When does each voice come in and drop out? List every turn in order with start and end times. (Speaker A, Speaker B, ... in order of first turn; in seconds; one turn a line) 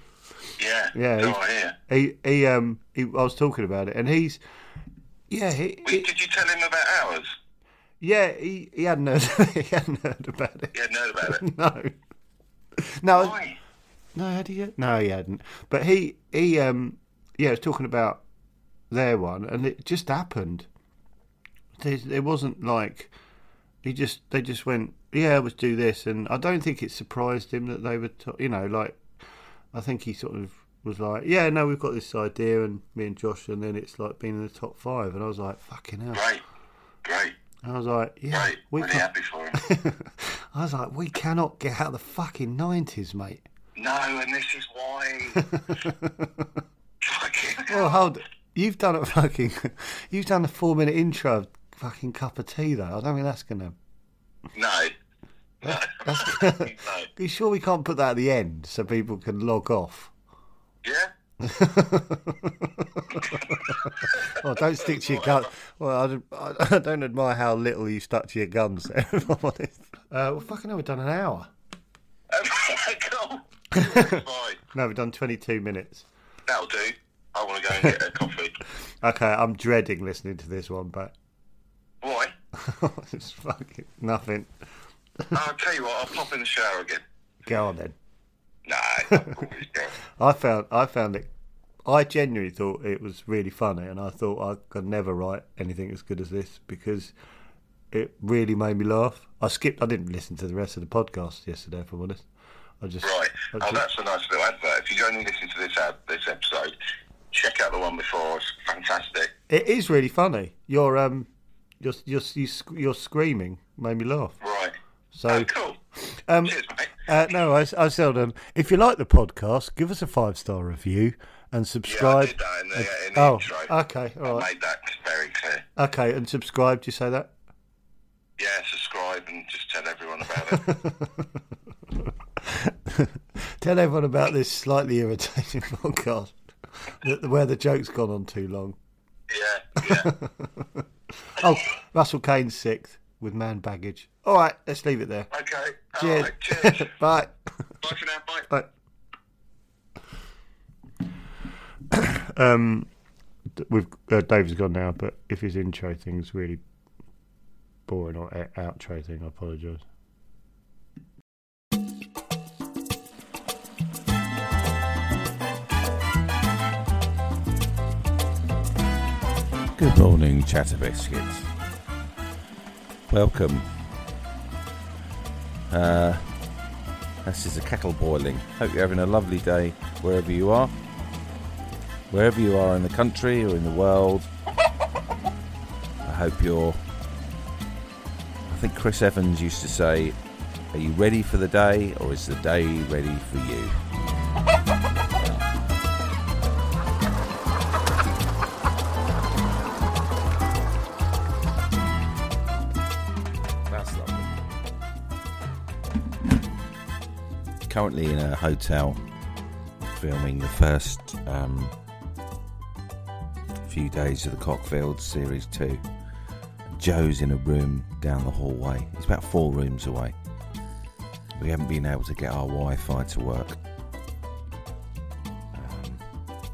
Speaker A: 0.6-1.8
Speaker B: 0.9-4.4
Speaker B: 5.3-6.1
Speaker A: 5.9-7.3
Speaker B: 8.0-11.9
Speaker A: 10.7-11.4
Speaker B: 12.8-13.4
Speaker A: 13.1-13.6
Speaker B: 14.1-18.2
Speaker B: 18.9-20.7
Speaker B: 21.8-23.1
Speaker B: 23.8-29.1
Speaker B: 29.7-36.2
Speaker A: 36.1-36.4
Speaker A: 37.0-37.3
Speaker B: 37.6-43.4
Speaker A: 38.3-39.6
Speaker A: 43.8-45.5
Speaker B: 45.4-46.5
Speaker A: 47.0-48.1
Speaker B: 47.7-53.8
Speaker A: 54.5-54.9
Speaker A: 55.6-57.1
Speaker B: 55.6-60.1
Speaker A: 60.8-61.1
Speaker B: 61.4-71.5
Speaker A: 63.2-65.5
Speaker A: 72.3-74.6
Speaker B: 73.8-74.2
Speaker B: 74.7-76.1
Speaker A: 76.5-78.6
Speaker B: 79.0-81.1
Speaker A: 82.0-82.3
Speaker B: 82.5-84.5
Speaker A: 85.3-87.0
Speaker B: 87.4-88.0
Speaker A: 88.6-89.9
Speaker B: 90.2-91.3
Speaker B: 91.8-97.1
Speaker B: 97.9-102.2
Speaker B: 102.8-103.8
Speaker A: 103.0-106.8
Speaker A: 107.3-109.3
Speaker B: 109.5-111.3
Speaker B: 111.8-114.4
Speaker A: 114.4-114.8
Speaker B: 115.1-115.5
Speaker A: 115.3-115.8
Speaker B: 116.0-124.5
Speaker A: 116.4-117.1
Speaker A: 121.8-125.7
Speaker B: 125.8-127.3
Speaker A: 128.4-130.7
Speaker B: 130.5-131.3
Speaker B: 132.4-138.8
Speaker A: 139.3-140.1
Speaker B: 139.8-140.8
Speaker B: 141.4-145.3
Speaker A: 145.3-146.9
Speaker B: 146.0-147.4
Speaker A: 147.8-148.5
Speaker B: 151.9-152.9
Speaker B: 153.5-156.6
Speaker B: 157.9-159.8
Speaker C: 169.7-171.5
Speaker C: 173.1-173.7
Speaker C: 175.7-176.3
Speaker C: 177.2-180.7
Speaker C: 182.1-184.3
Speaker C: 186.1-186.8
Speaker C: 188.5-190.2
Speaker C: 190.7-193.8
Speaker C: 203.7-204.4
Speaker C: 207.7-209.0
Speaker C: 209.9-211.8
Speaker C: 213.6-215.8
Speaker C: 216.8-220.1
Speaker C: 221.4-223.6
Speaker C: 225.5-226.1